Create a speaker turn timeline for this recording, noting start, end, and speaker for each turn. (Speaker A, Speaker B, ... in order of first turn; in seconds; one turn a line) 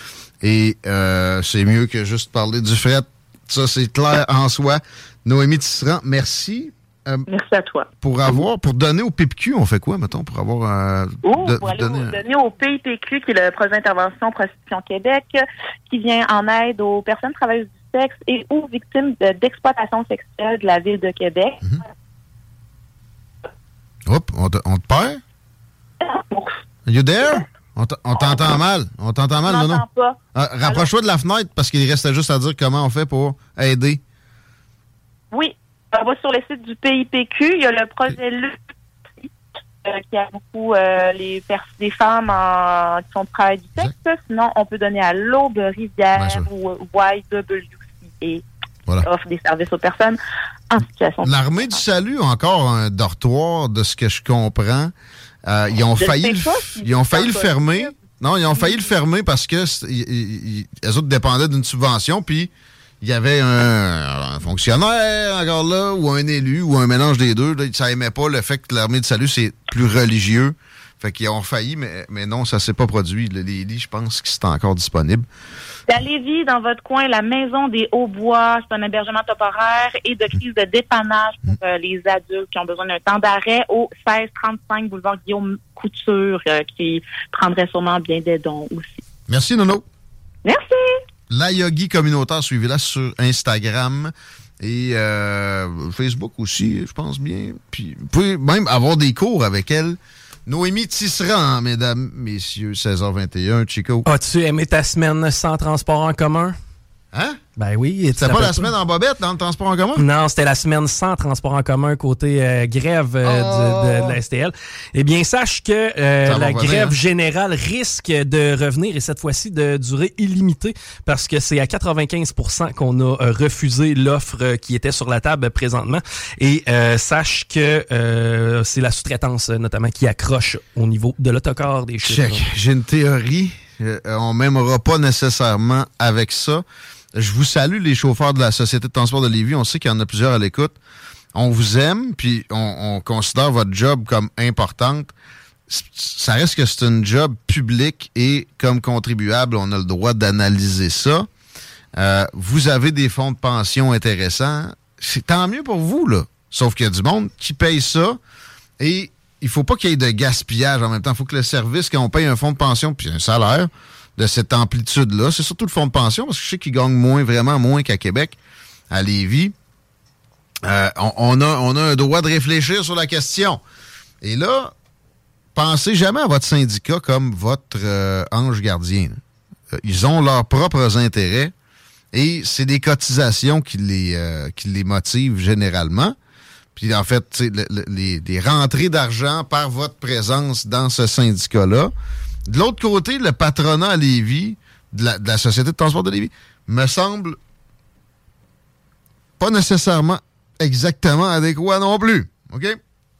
Speaker A: 0.4-7.3
Speaker B: 7.3-7.9
Speaker A: 8.0-12.2
Speaker B: 11.2-21.9
Speaker A: 24.1-25.2
Speaker B: 26.0-26.6
Speaker A: 26.9-34.0
Speaker B: 29.5-30.9
Speaker B: 35.3-38.6
Speaker B: 39.8-48.4
Speaker A: 46.2-46.5
Speaker B: 49.0-50.2
Speaker B: 50.7-51.8
Speaker A: 51.2-54.9
Speaker A: 55.5-75.3
Speaker B: 56.0-58.0
Speaker B: 75.9-89.0
Speaker A: 89.3-89.8
Speaker B: 90.5-91.0
Speaker A: 91.3-104.1
Speaker C: 104.1-106.6
Speaker A: 107.1-107.4
Speaker C: 107.6-108.7
Speaker A: 108.2-110.0
Speaker C: 110.0-132.4
Speaker A: 113.2-114.2
Speaker A: 116.2-117.0
Speaker A: 132.0-140.8
Speaker A: 141.3-145.1
Speaker A: 145.7-151.3
Speaker A: 152.0-158.2
Speaker A: 158.8-168.4
Speaker A: 168.9-169.6
Speaker A: 170.6-173.6
Speaker A: 174.2-174.7
Speaker A: 175.6-179.2
Speaker A: 179.7-181.5
Speaker A: 182.1-186.2
Speaker A: 186.8-191.9
Speaker A: 192.5-197.4
Speaker A: 199.4-202.8